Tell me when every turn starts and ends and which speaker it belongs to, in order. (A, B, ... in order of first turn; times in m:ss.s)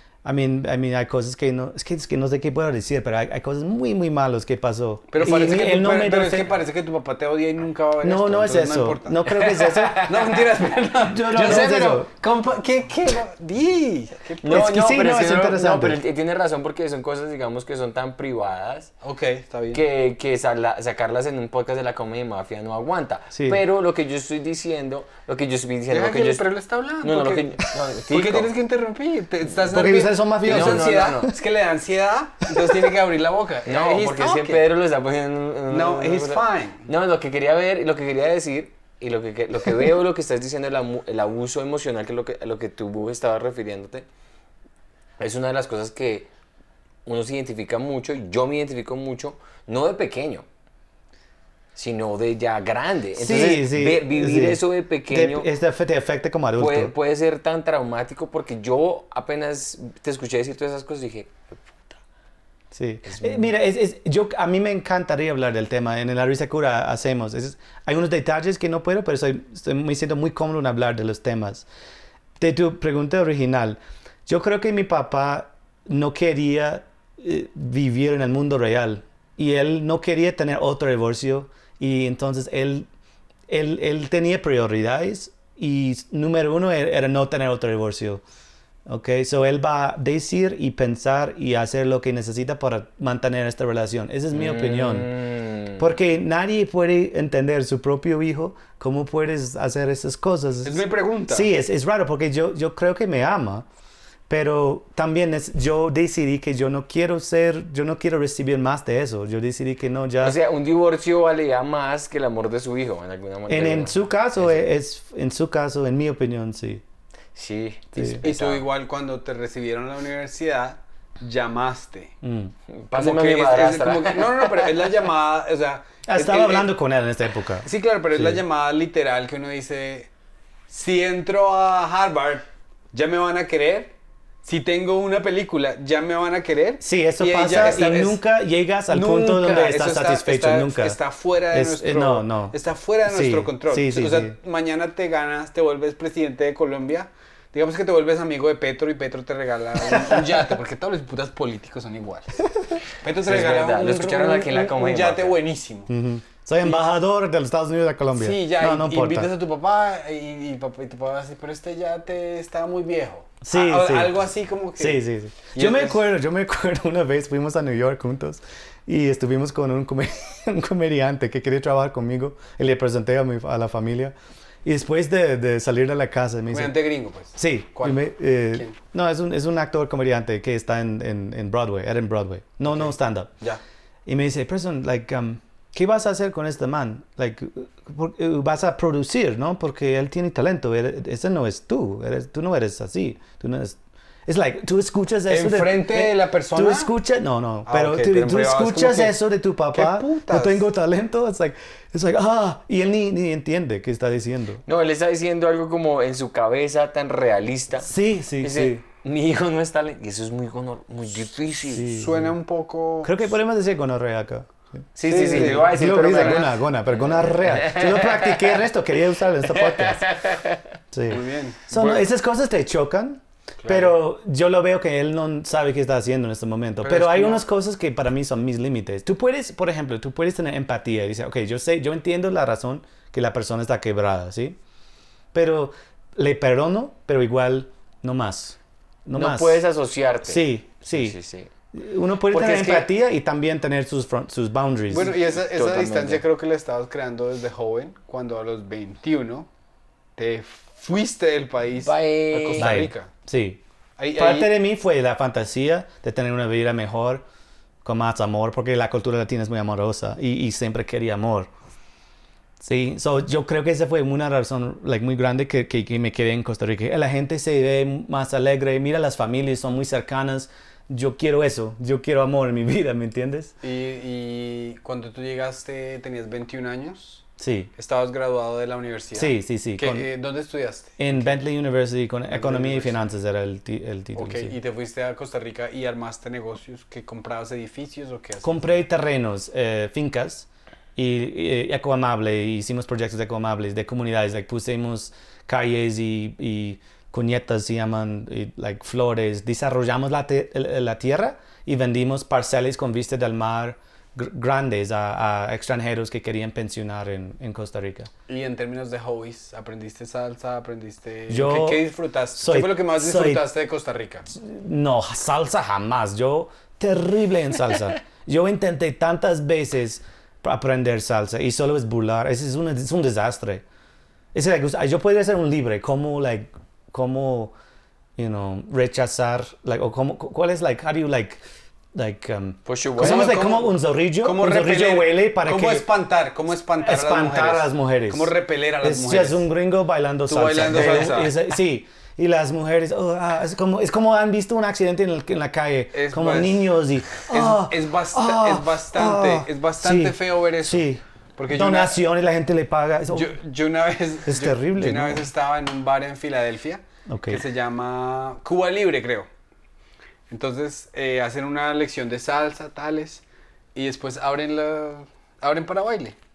0:00.2-0:06.5 A
0:05.1-0:14.7 B
0:08.0-0:10.1 A
0:09.9-0:10.3 C
0:11.0-0:12.1 A
0:14.4-0:18.9 C
0:14.5-0:16.0 A
0:19.0-0:19.8 B
0:19.7-0:26.4 C
0:23.3-0:23.6 A
0:25.9-0:34.6 B
0:27.0-0:28.5 C
0:29.7-0:31.3 A
0:30.4-0:31.3 C
0:33.6-0:44.0 C
0:35.7-0:36.9 B
0:45.2-0:46.3 C
0:47.0-0:50.4 C
0:51.7-0:55.5 C
0:53.2-0:56.9 A
0:56.6-1:01.3 C
1:02.7-1:11.6 A
1:03.0-1:03.5 C
1:12.4-1:22.9 A
1:23.5-1:28.2 A
1:28.9-1:35.1 A
1:34.3-1:35.8 C
1:35.8-1:43.6 A
1:40.6-1:41.5 B
1:44.3-1:50.4 A
1:50.2-1:54.6 C
1:53.5-1:56.8 A
1:57.3-1:58.6 C
1:57.9-1:58.2 A
1:58.2-2:02.1 B
2:02.2-2:02.5 A
2:02.7-2:04.7 C
2:02.9-2:06.7 B
2:06.1-2:08.4 A
2:07.6-2:10.1 B
2:10.7-2:13.9 B
2:14.4-2:18.2 B
2:16.8-2:21.0 A
2:18.9-2:35.9 B
2:21.5-2:24.4 A
2:29.9-2:30.2 A
2:33.2-2:35.4 C
2:35.9-2:39.3 A
2:38.1-2:46.0 B
2:43.4-2:44.2 A
2:44.8-2:54.1 A
2:54.6-2:56.7 A
2:56.5-2:58.7 B
2:57.3-3:03.3 A
3:02.7-3:03.6 B
3:04.0-3:24.6 A
3:15.3-3:16.9 B
3:17.6-3:19.2 B
3:19.7-3:20.6 B
3:24.6-3:27.9 C
3:27.8-3:28.8 A
3:28.4-3:31.9 C
3:31.7-3:32.3 A
3:31.8-3:33.3 B
3:33.0-3:34.5 A
3:35.0-3:38.6 C
3:35.0-3:36.5 B
3:35.2-3:40.1 A
3:39.4-3:40.7 C
3:40.9-3:54.6 A
3:41.1-3:42.0 B
3:43.6-3:44.0 B
3:46.8-3:47.4 B
3:55.3-3:59.6 A
3:59.1-4:01.5 C
4:00.2-4:01.2 A
4:01.7-4:05.1 A
4:02.3-4:02.9 C
4:04.9-4:09.5 B
4:05.0-4:06.2 C
4:10.2-4:13.1 B
4:11.8-4:12.8 C
4:12.6-4:13.6 A
4:14.0-4:14.5 B
4:14.2-4:17.2 A
4:17.8-4:21.5 A
4:22.6-4:33.5 A
4:33.6-4:37.2 B
4:37.4-4:37.7 A
4:37.8-4:41.4 B
4:39.1-4:40.1 A
4:41.0-4:44.5 A
4:42.3-4:43.0 B
4:44.2-4:48.7 B
4:48.4-5:08.1 A
5:08.3-5:14.3 B
5:11.3-5:11.8 A
5:12.4-5:13.4 A
5:14.3-5:23.6 A
5:24.3-5:27.5 A
5:28.2-5:31.4 A
5:31.9-5:35.8 A
5:32.6-5:33.4 C
5:33.0-5:39.4 B
5:36.8-5:53.3 A
5:40.3-5:41.3 B
5:40.7-5:41.0 C
5:45.9-5:52.0 B
5:53.1-5:59.3 B
5:54.3-5:55.3 A
5:57.1-5:57.4 A
6:00.3-6:03.2 B
6:03.7-6:06.2 B